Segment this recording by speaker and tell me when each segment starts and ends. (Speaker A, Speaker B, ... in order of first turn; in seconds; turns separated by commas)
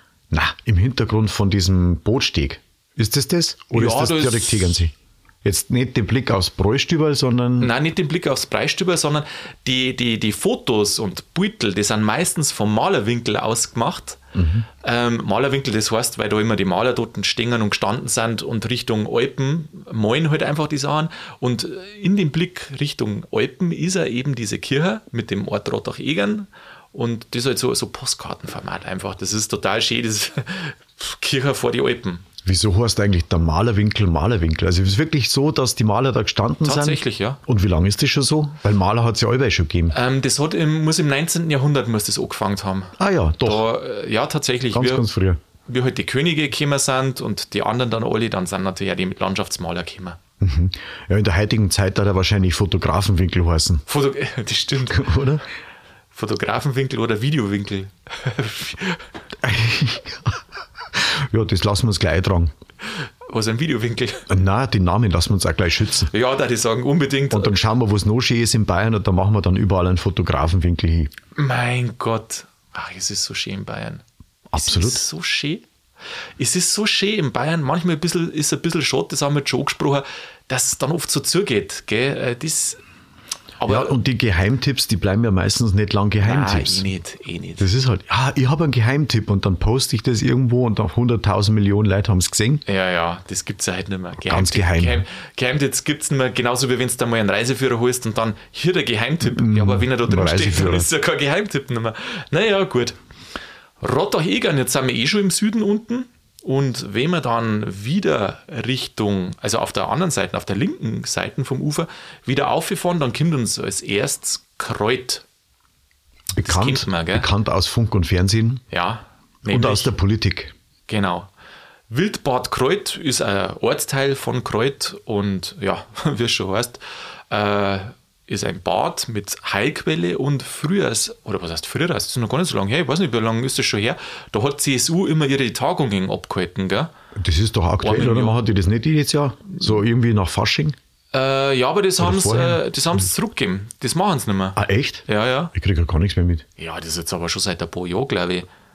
Speaker A: 0.3-7.7, Speaker B: 3.7-4.8, Speaker B: 7.6-14.2, Speaker A: 14.3-14.7, Speaker B: 14.8-32.2, Speaker A: 32.4-39.9, Speaker B: 36.6-37.4, Speaker B: 39.9-45.0, Speaker A: 43.0-43.6, Speaker A: 44.7-45.4, Speaker B: 45.7-50.2, Speaker A: 50.4-53.8, Speaker B: 53.9-55.2, Speaker A: 54.9-55.4, Speaker B: 56.1-59.0, Speaker A: 59.4-60.4, Speaker A: 60.9-62.5, Speaker B: 63.3-64.3, Speaker A: 64.3-66.1, Speaker B: 66.1-67.6, Speaker A: 67.3-71.1, Speaker B: 71.3-74.0, Speaker A: 74.5-75.0, Speaker B: 74.5-75.6, Speaker B: 76.4-82.8, Speaker B: 83.6-84.0, Speaker A: 83.7-86.8, Speaker B: 86.2-87.7, Speaker A: 87.6-92.6, Speaker B: 92.7-103.0, Speaker A: 94.3-95.0, Speaker A: 99.2-100.9, Speaker B: 103.8-115.2, Speaker A: 116.3-118.6, Speaker B: 116.4-117.3, Speaker B: 118.7-119.9, Speaker A: 119.5-120.5, Speaker B: 120.9-121.3, Speaker B: 121.9-136.9, Speaker A: 137.1-140.8, Speaker B: 137.8-138.4, Speaker B: 141.1-145.5, Speaker A: 142.0-142.6, Speaker A: 144.6-146.4, Speaker B: 146.6-148.5